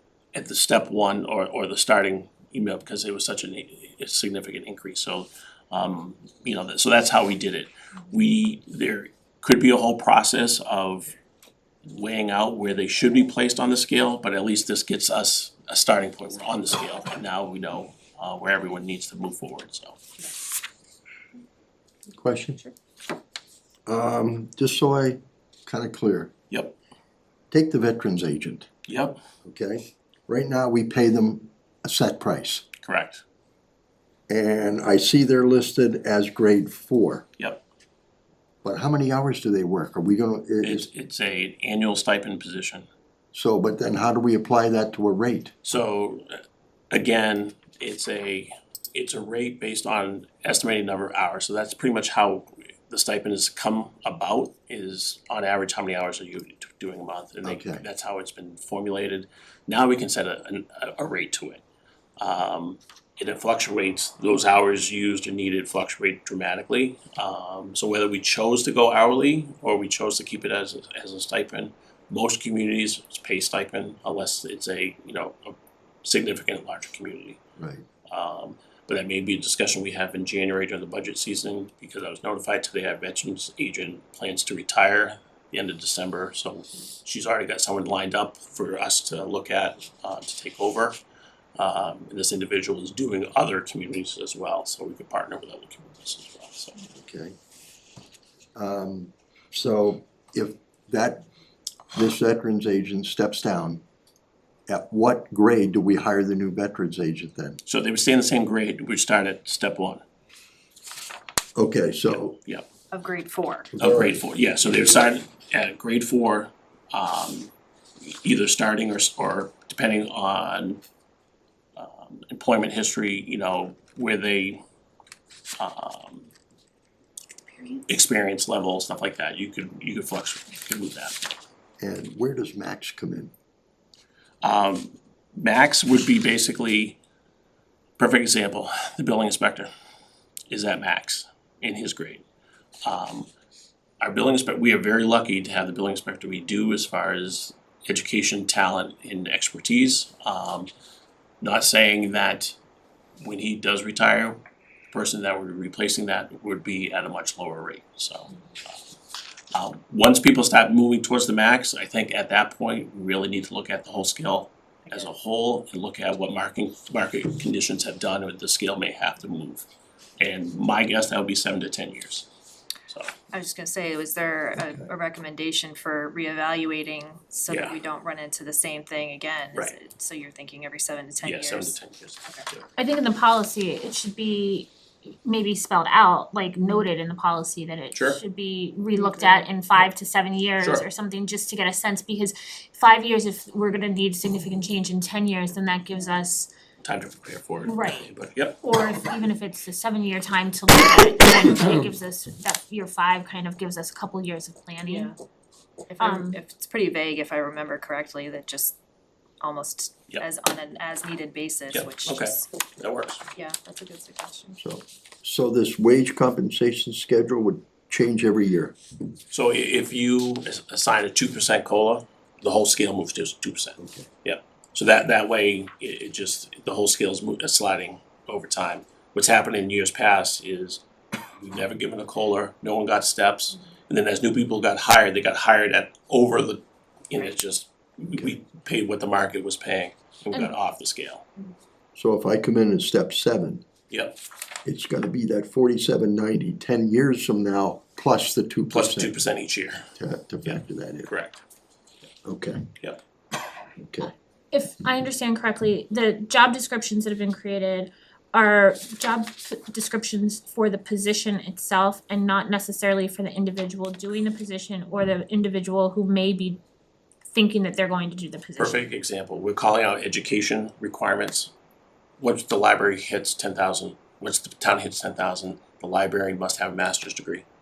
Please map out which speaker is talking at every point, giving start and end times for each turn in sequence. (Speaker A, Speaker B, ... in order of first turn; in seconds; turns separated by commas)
Speaker A: 0.3-11.1, Speaker A: 11.8-20.0, Speaker B: 22.1-22.6, Speaker B: 23.9-26.3, Speaker A: 26.5-26.8, Speaker B: 27.5-28.7, Speaker A: 28.9-29.2, Speaker B: 29.4-32.6, Speaker A: 32.8-33.2, Speaker B: 34.3-37.3, Speaker B: 38.6-40.9, Speaker A: 40.6-42.9, Speaker B: 43.3-45.5, Speaker A: 45.6-61.6, Speaker B: 57.4-57.8, Speaker A: 62.2-77.4, Speaker B: 77.6-77.8, Speaker A: 78.1-91.0, Speaker A: 91.6-96.8, Speaker B: 96.9-97.3, Speaker B: 98.5-101.2, Speaker B: 101.9-103.8, Speaker B: 104.7-107.6, Speaker A: 107.7-110.0, Speaker B: 111.5-112.4, Speaker A: 112.1-112.7, Speaker C: 112.9-113.7, Speaker B: 113.7-115.0, Speaker A: 113.8-117.5, Speaker A: 118.0-120.8, Speaker A: 121.8-124.6, Speaker A: 125.6-126.3, Speaker A: 127.9-131.2, Speaker B: 131.8-133.3, Speaker A: 134.4-137.0, Speaker A: 138.0-139.7, Speaker A: 140.5-142.3, Speaker A: 142.8-143.3, Speaker A: 144.0-150.7, Speaker A: 151.4-152.6, Speaker A: 153.2-158.3, Speaker A: 159.5-169.7, Speaker C: 164.9-165.1, Speaker A: 170.2-172.3, Speaker A: 172.9-173.1, Speaker C: 173.3-182.5, Speaker A: 177.5-177.8, Speaker A: 181.2-182.7, Speaker D: 182.8-184.7, Speaker D: 185.2-196.5, Speaker A: 187.9-188.2, Speaker C: 188.9-189.5, Speaker A: 190.6-190.9, Speaker A: 196.8-198.7, Speaker D: 197.7-198.1, Speaker D: 198.6-205.2, Speaker C: 204.8-205.1, Speaker C: 205.9-208.8, Speaker D: 206.0-206.4, Speaker C: 209.4-212.5, Speaker A: 211.7-213.2, Speaker C: 213.3-214.6, Speaker B: 214.6-218.8, Speaker A: 219.3-241.3, Speaker B: 223.8-224.1, Speaker B: 241.9-243.6, Speaker A: 243.9-244.2, Speaker B: 244.6-249.2, Speaker A: 248.7-249.9, Speaker B: 250.0-251.1, Speaker A: 250.4-251.4, Speaker B: 252.2-252.7, Speaker B: 253.8-254.1, Speaker D: 254.5-266.6, Speaker D: 267.3-268.8, Speaker A: 268.6-271.5, Speaker A: 272.2-277.5